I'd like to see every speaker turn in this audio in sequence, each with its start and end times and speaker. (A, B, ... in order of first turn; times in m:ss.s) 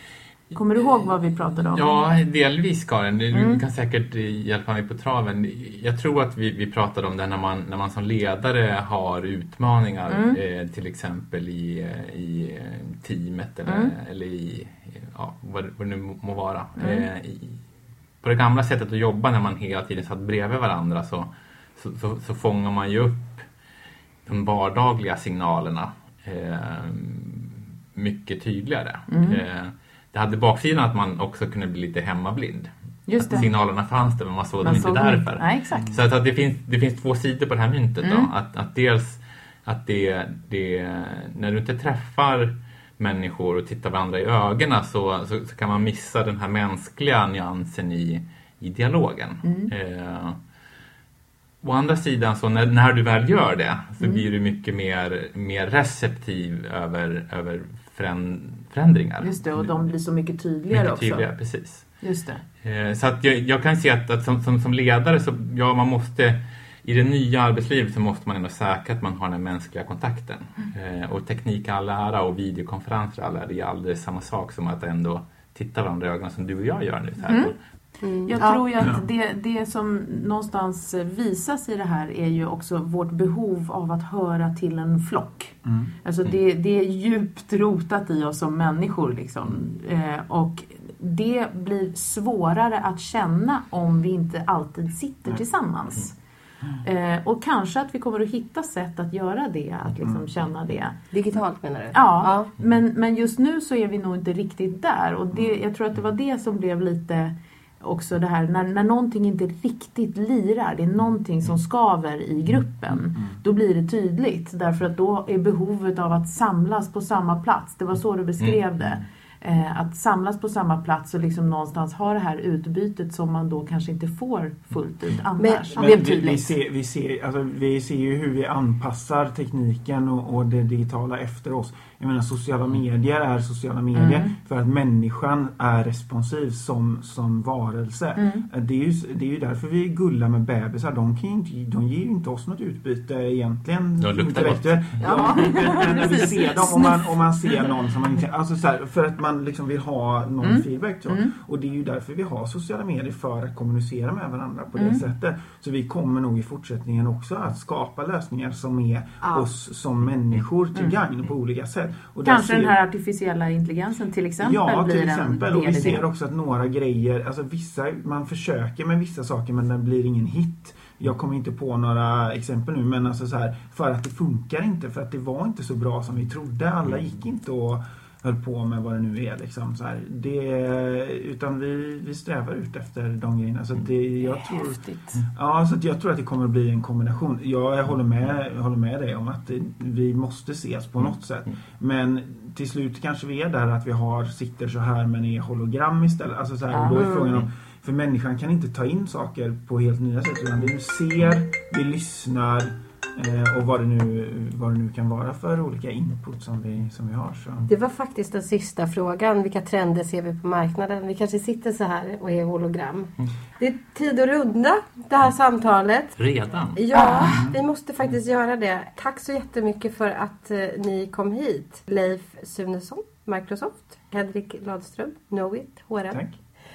0:00.5-0:02.0 A
0:01.7-0:17.6 B
0:03.3-0:03.6 A
0:10.1-0:10.4 A
0:13.7-0:13.9 A
0:16.8-0:17.1 A
0:18.2-0:23.4 B
0:24.2-0:50.4 B
0:29.1-0:29.4 A
0:33.1-0:33.5 A
0:34.6-0:35.9 A
0:38.0-0:38.3 A
0:49.4-0:49.7 A
0:51.6-0:59.7 B
0:54.0-0:54.2 A
0:59.2-1:01.2 A
1:00.7-1:01.9 B
1:02.0-1:02.4 A
1:02.6-1:17.6 B
1:17.3-1:17.5 A
1:18.0-1:18.6 C
1:18.3-1:36.2 A
1:18.8-1:19.0 D
1:25.6-1:25.9 D
1:36.8-1:41.0 A
1:40.0-1:40.3 D
1:41.1-1:42.5 C
1:41.9-2:06.5 A
2:05.4-2:06.0 C
2:05.8-2:42.8 D
2:13.9-2:14.4 A
2:18.2-2:18.5 A
2:24.0-2:25.0 B
2:25.0-2:26.0 C
2:25.1-2:27.1 A
2:30.4-2:31.3 A
2:34.8-2:35.0 A
2:39.2-2:39.5 C
2:42.2-2:46.0 A
2:44.4-3:27.7 D
3:04.2-3:05.2 A
3:16.7-3:17.1 A
3:16.9-3:17.4 C
3:27.7-3:36.2 C
3:36.2-3:36.8 B
3:36.7-3:46.2 C
3:36.9-3:37.4 A
3:37.3-3:37.6 D